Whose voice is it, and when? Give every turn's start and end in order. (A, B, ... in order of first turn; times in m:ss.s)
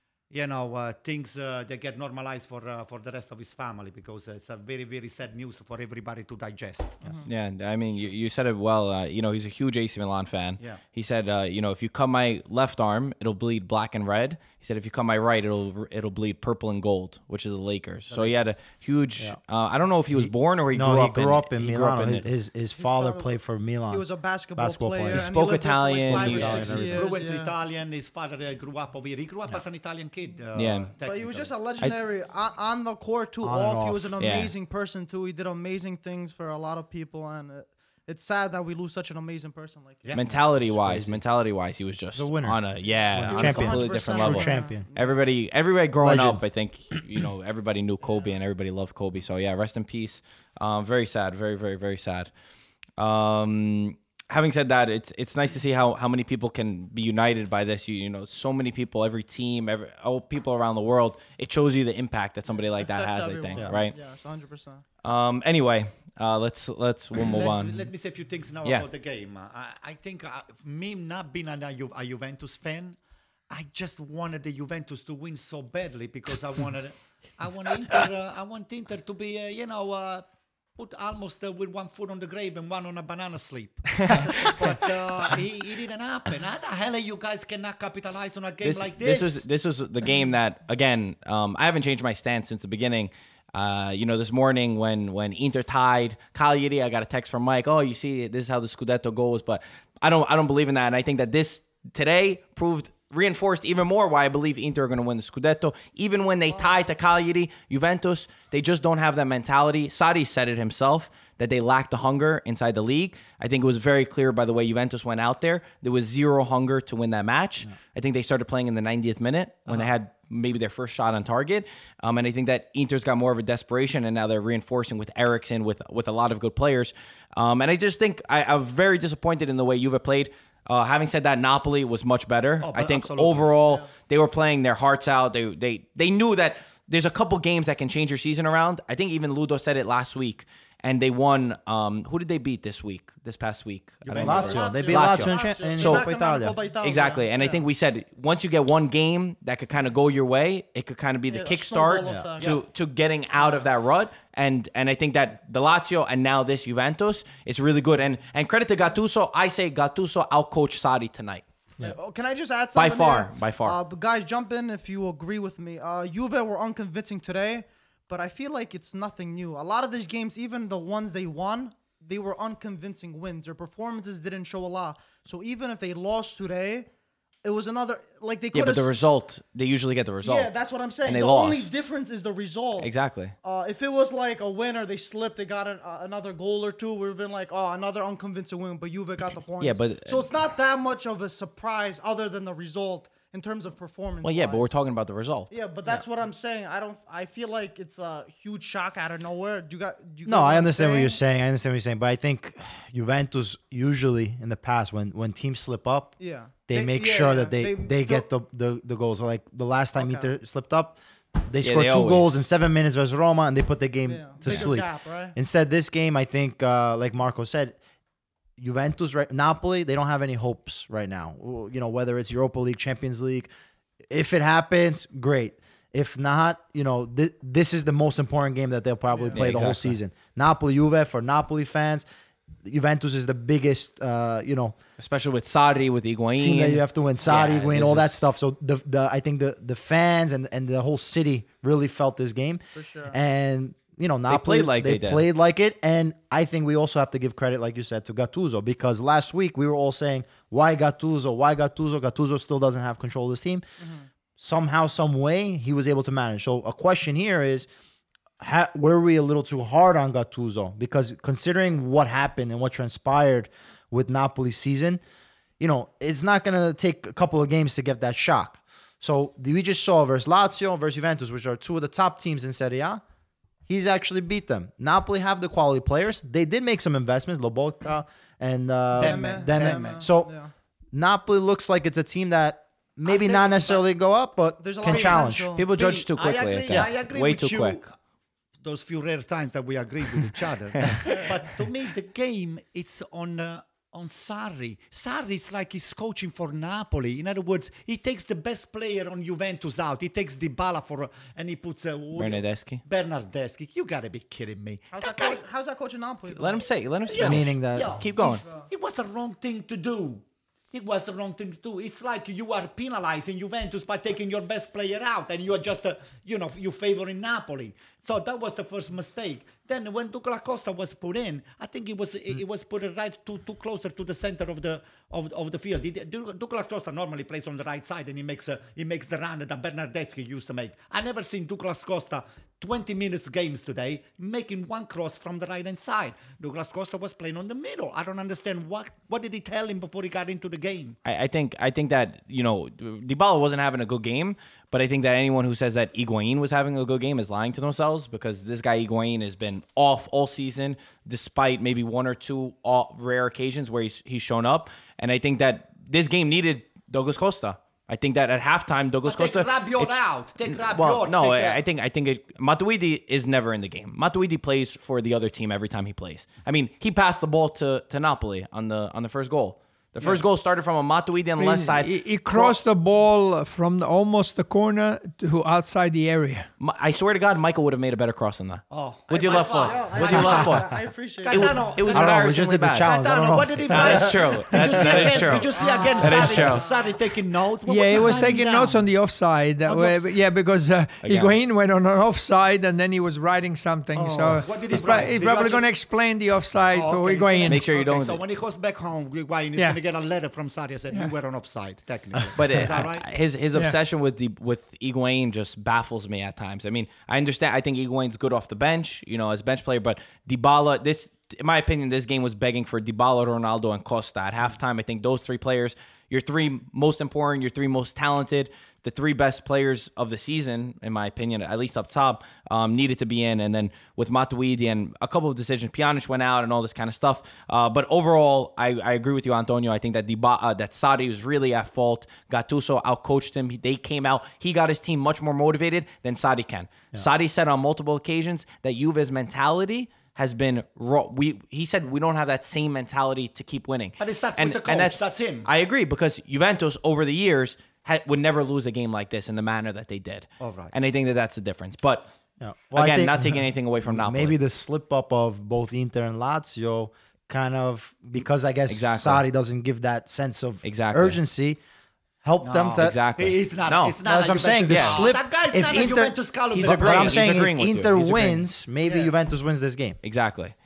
0:00.3-0:07.2 A
0:07.2-0:22.3 B
0:18.1-0:18.5 A
0:20.1-0:27.1 C
0:22.8-0:23.3 D
0:23.8-0:27.5 D
0:25.1-0:27.0 B
0:26.3-0:31.6 A
0:30.5-0:30.9 B
0:31.0-0:40.1 D
0:33.4-0:34.2 C
0:34.2-0:34.5 B
0:40.1-0:52.3 B
0:40.2-0:41.2 C
0:42.1-0:44.9 C
0:43.1-0:45.1 D
0:46.0-0:46.4 C
0:53.0-1:04.0 B
1:02.5-1:04.8 D
1:05.0-1:07.9 B
1:07.2-1:13.0 A
1:13.5-1:29.5 A
1:24.0-1:24.6 B
1:28.6-2:26.1 B
2:12.6-2:13.6 A
2:24.0-2:24.8 A
2:24.2-2:26.6 C
2:24.3-2:27.7 D
2:26.8-2:41.4 B
2:31.3-2:32.6 D
2:32.0-2:32.3 C
2:41.8-2:56.9 D
2:42.7-2:43.8 B
2:57.4-2:59.0 D
2:58.5-3:00.5 B
3:00.2-3:14.8 D
3:01.0-3:01.7 B
3:02.8-3:03.3 B
3:09.6-3:10.3 B
3:14.2-3:15.5 B
3:15.5-3:21.2 D
3:20.2-3:37.8 C
3:26.2-3:28.3 D
3:30.0-3:30.3 D
3:31.6-3:32.4 B
3:34.0-3:35.4 D
3:38.6-3:43.5 C
3:44.1-3:52.0 C
3:49.1-3:49.7 D
3:49.3-3:50.0 B
3:52.6-3:54.8 C
3:55.0-3:58.2 B
3:56.4-4:13.6 C
4:02.7-4:03.2 D
4:04.3-4:05.3 B
4:13.8-4:14.1 D
4:14.4-4:17.7 C
4:18.4-4:25.0 C
4:25.6-4:33.0 C
4:33.7-4:40.3 C
4:39.0-4:40.0 A
4:39.0-4:40.5 D
4:40.9-4:45.6 C
4:43.0-4:43.9 D
4:44.6-4:45.7 D
4:44.9-4:47.9 A
4:45.6-4:47.9 B
4:48.6-5:05.4 A
5:02.2-5:02.8 B
5:04.9-5:06.7 D
5:06.3-5:08.4 B
5:07.1-5:41.0 A
5:07.2-5:08.0 C
5:41.0-6:12.6 B
5:59.0-6:01.6 A
6:10.0-6:10.2 A
6:11.4-6:16.5 E
6:16.6-6:20.7 B
6:18.7-6:20.6 A
6:19.5-6:21.6 D
6:20.1-6:20.4 C
6:21.2-6:23.0 B
6:21.2-6:28.9 A
6:21.9-6:25.1 C
6:23.7-6:26.6 B
6:25.5-6:26.8 D
6:27.6-6:37.6 E
6:29.7-6:30.0 A
6:31.0-6:31.4 B
6:33.9-6:35.7 A
6:36.7-6:43.0 A
6:37.4-6:38.2 B
6:42.4-7:32.1 B
7:24.0-7:25.5 A
7:30.4-7:30.7 A
7:32.4-7:41.6 C
7:32.7-7:34.4 B
7:38.7-7:39.2 B
7:40.6-7:41.2 B
7:42.2-7:43.0 C
7:42.4-7:47.5 A
7:42.7-7:44.0 B
7:44.0-7:50.0 C
7:44.7-7:45.1 B
7:46.5-7:48.4 B
7:48.9-7:49.1 A
7:50.0-7:50.5 B